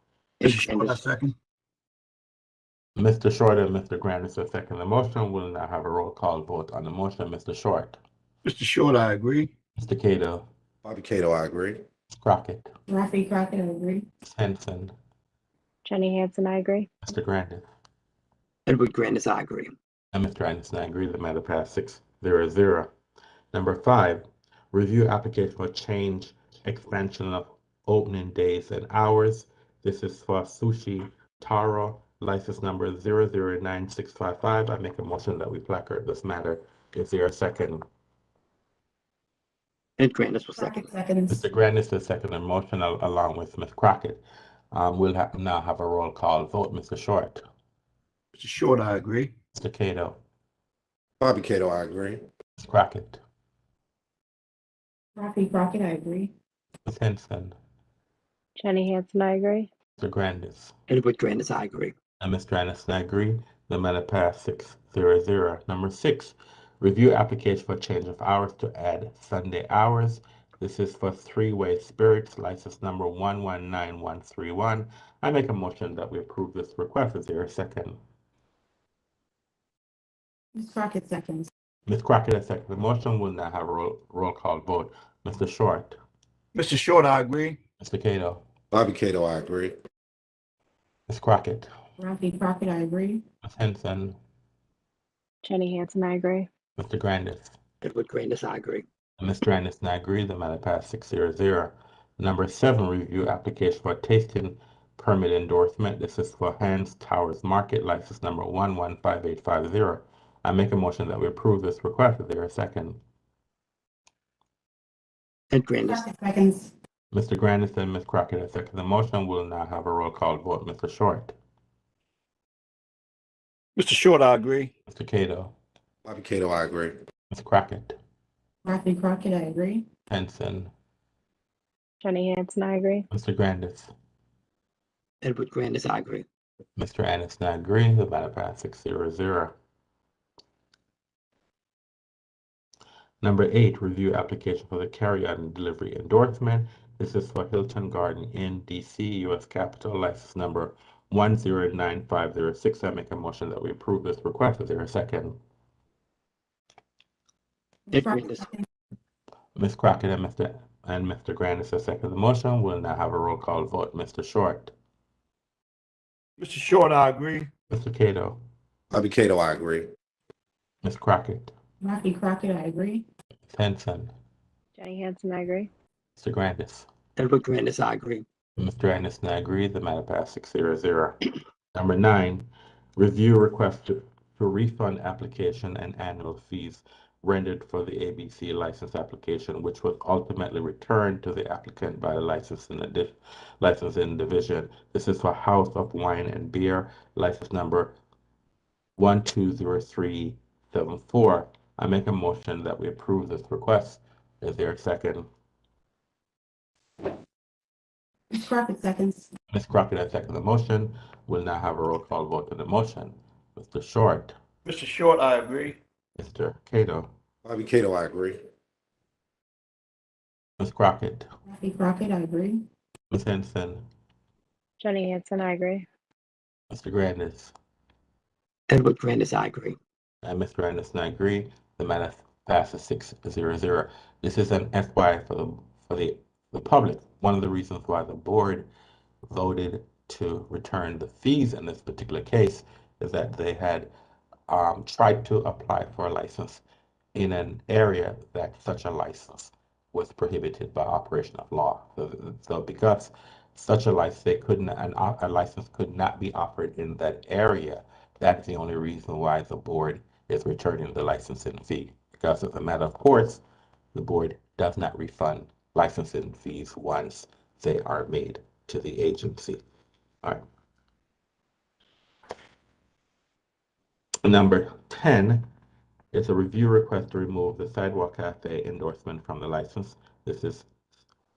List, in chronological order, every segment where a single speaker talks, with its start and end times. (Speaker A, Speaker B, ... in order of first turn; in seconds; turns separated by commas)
Speaker A: 0.4-1.0, Speaker B: 0.4-1.3, Speaker C: 3.0-8.0, Speaker B: 8.4-9.5, Speaker C: 9.8-10.4, Speaker D: 10.8-11.8, Speaker C: 12.2-12.7, Speaker E: 12.9-14.0, Speaker C: 14.2-14.9, Speaker F: 15.8-16.9, Speaker C: 17.0-17.6, Speaker A: 18.7-19.7, Speaker C: 20.1-22.9, Speaker C: 23.5-37.8, Speaker A: 40.0-40.9, Speaker E: 40.6-41.4, Speaker C: 41.3-44.2, Speaker C: 44.7-47.4, Speaker B: 48.3-49.3, Speaker C: 49.5-50.2, Speaker D: 51.2-52.2, Speaker C: 52.6-53.2, Speaker E: 55.2-56.3, Speaker C: 56.9-57.5, Speaker F: 58.6-59.7, Speaker C: 60.0-60.7, Speaker A: 60.9-61.9, Speaker C: 62.2-78.0, Speaker E: 80.5-81.5, Speaker C: 81.8-86.0, Speaker B: 86.5-87.6, Speaker C: 87.8-88.4, Speaker D: 88.7-89.7, Speaker C: 91.1-91.7, Speaker E: 92.0-93.2, Speaker C: 93.4-94.2, Speaker F: 95.4-96.5, Speaker C: 96.8-97.5, Speaker A: 97.8-98.8, Speaker C: 99.2-113.0, Speaker A: 115.5-116.0, Speaker E: 115.8-116.7, Speaker C: 117.1-121.3, Speaker B: 123.8-124.7, Speaker C: 124.9-125.5, Speaker D: 126.0-127.0, Speaker C: 127.3-128.0, Speaker E: 128.7-129.8, Speaker C: 130.1-130.7, Speaker F: 132.0-133.1, Speaker C: 133.1-133.9, Speaker A: 135.2-136.2, Speaker C: 136.8-139.5, Speaker C: 143.2-155.4, Speaker A: 157.9-158.5, Speaker C: 159.5-164.7, Speaker B: 166.4-167.5, Speaker C: 167.7-168.4, Speaker D: 168.9-169.9, Speaker C: 170.8-171.5, Speaker E: 171.8-173.0, Speaker C: 173.5-174.1, Speaker F: 174.8-175.7, Speaker C: 176.2-176.9, Speaker A: 177.2-178.2, Speaker C: 178.6-181.2, Speaker C: 181.7-197.9, Speaker C: 199.0-205.3, Speaker E: 208.3-209.3, Speaker C: 209.5-214.3, Speaker B: 214.7-215.8, Speaker C: 216.2-217.1, Speaker D: 217.4-218.4, Speaker C: 220.6-221.3, Speaker E: 221.5-222.6, Speaker C: 223.1-223.8, Speaker F: 224.8-225.9, Speaker C: 226.7-227.5, Speaker A: 228.7-229.8, Speaker C: 230.2-238.7, Speaker C: 239.3-243.9, Speaker C: 244.5-246.6, Speaker C: 247.1-263.4, Speaker C: 263.9-269.6, Speaker C: 274.2-275.5, Speaker C: 276.1-280.7